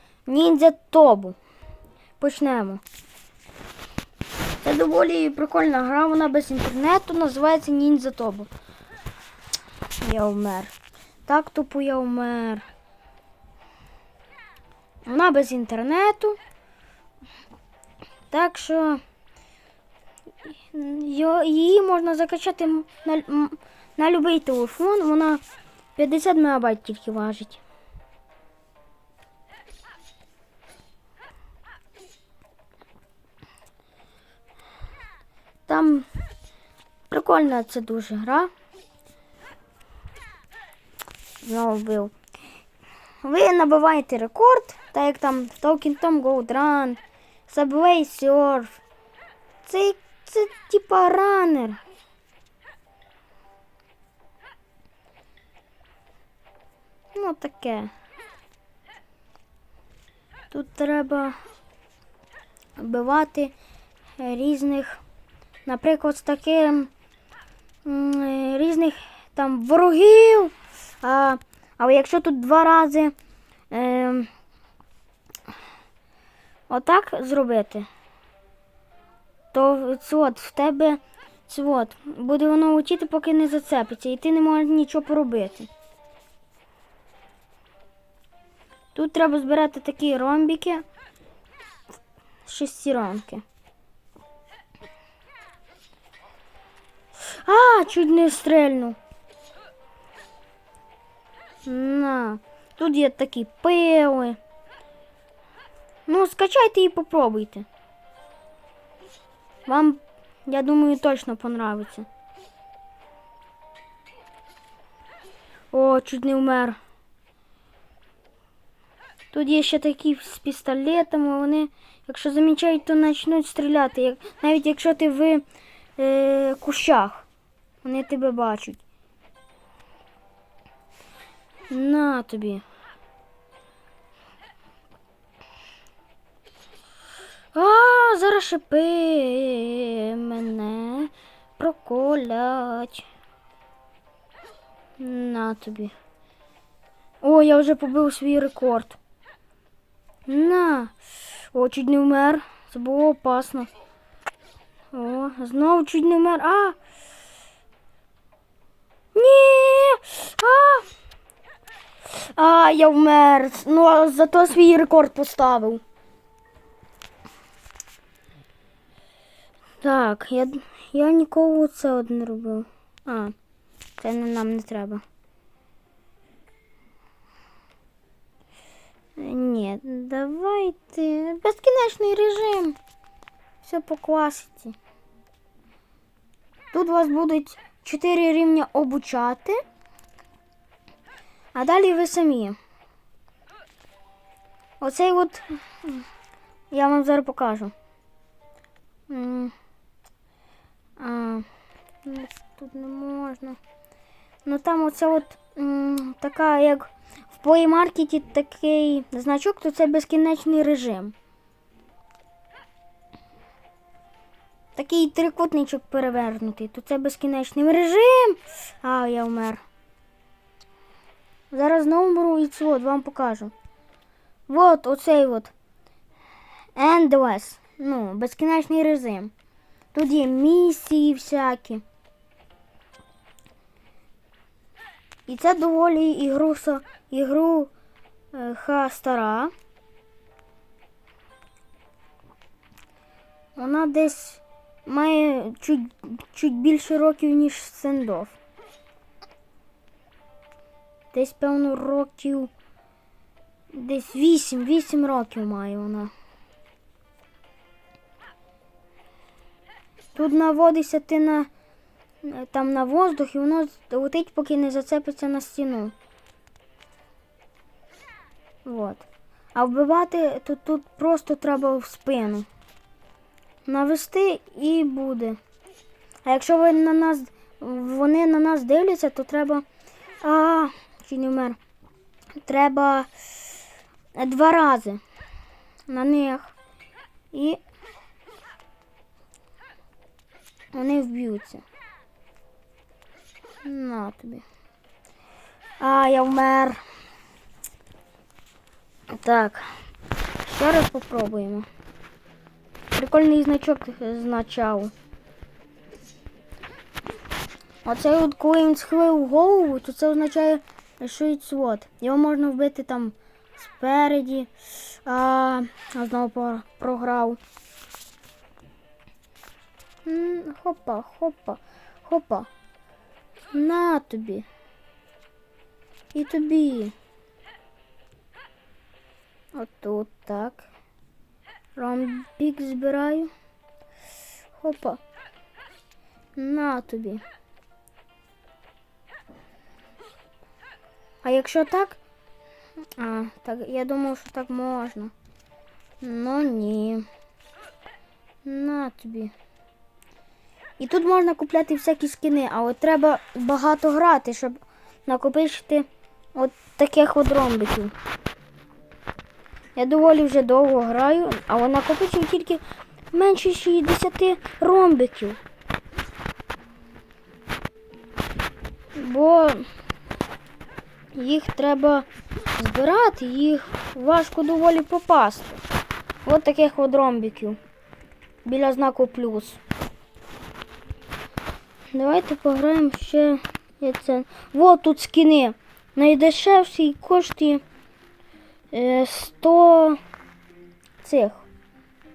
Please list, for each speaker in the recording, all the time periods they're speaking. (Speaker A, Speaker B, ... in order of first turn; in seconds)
Speaker A: 0.3-1.4, 2.2-2.8, 4.6-8.5, 10.0-10.7, 11.2-12.7, 15.1-16.4, 18.3-19.0, 20.7-25.4, 25.9-27.6, 35.7-36.1, 37.1-38.5, 41.4-42.1, 43.2-48.8, 49.6-51.8, 57.1-57.9, 60.5-61.4, 62.8-63.5, 64.2-65.0, 65.7-66.9, 67.8-73.1, 73.7-74.3, 76.7-77.9, 79.5-85.7, 88.9-90.8, 92.5-93.4, 97.2-99.0, 101.6-104.4, 106.1-107.7, 109.7-112.1, 115.7-116.8, 119.3-125.4, 126.0-127.2, 127.8-128.8, 131.7-132.6, 137.5-143.1, 145.0-145.9, 147.2-149.0, 150.3-150.9, 151.5-153.7, 154.9-156.8, 159.1-160.8, 162.1-165.8, 169.8-173.3, 174.0-175.0, 179.2-182.8, 183.6-184.8, 186.7-189.6, 191.5-192.6, 194.8-196.1, 196.7-197.7, 199.1-199.5, 201.0-201.4, 202.0-203.6, 204.4-211.1, 214.7-219.6, 221.5-223.5, 224.5-225.5, 226.7-229.3, 229.9-231.8, 235.3-237.7, 238.3-239.5, 243.6-248.3, 251.1-252.5, 253.7-256.1, 260.1-261.5, 262.2-265.9, 268.6-272.5, 273.6-275.4, 276.2-279.6, 280.2-281.6, 282.4-283.1, 284.1-285.0, 285.9-286.5, 287.3-287.6, 290.7-291.6, 293.6-294.4, 295.8-296.8, 299.1-299.7, 300.4-301.6, 302.9-304.9, 307.8-317.4, 320.1-322.5, 323.5-324.4, 326.1-326.9, 329.5-330.7, 331.8-333.3, 334.6-335.0, 336.4-337.2, 341.2-342.0, 343.0-345.1, 346.0-347.0, 348.4-349.3, 350.8-357.9, 359.8-365.4, 368.9-369.6, 371.1-375.6, 376.2-377.6, 378.4-379.6, 381.9-387.6, 388.7-390.0, 391.0-391.5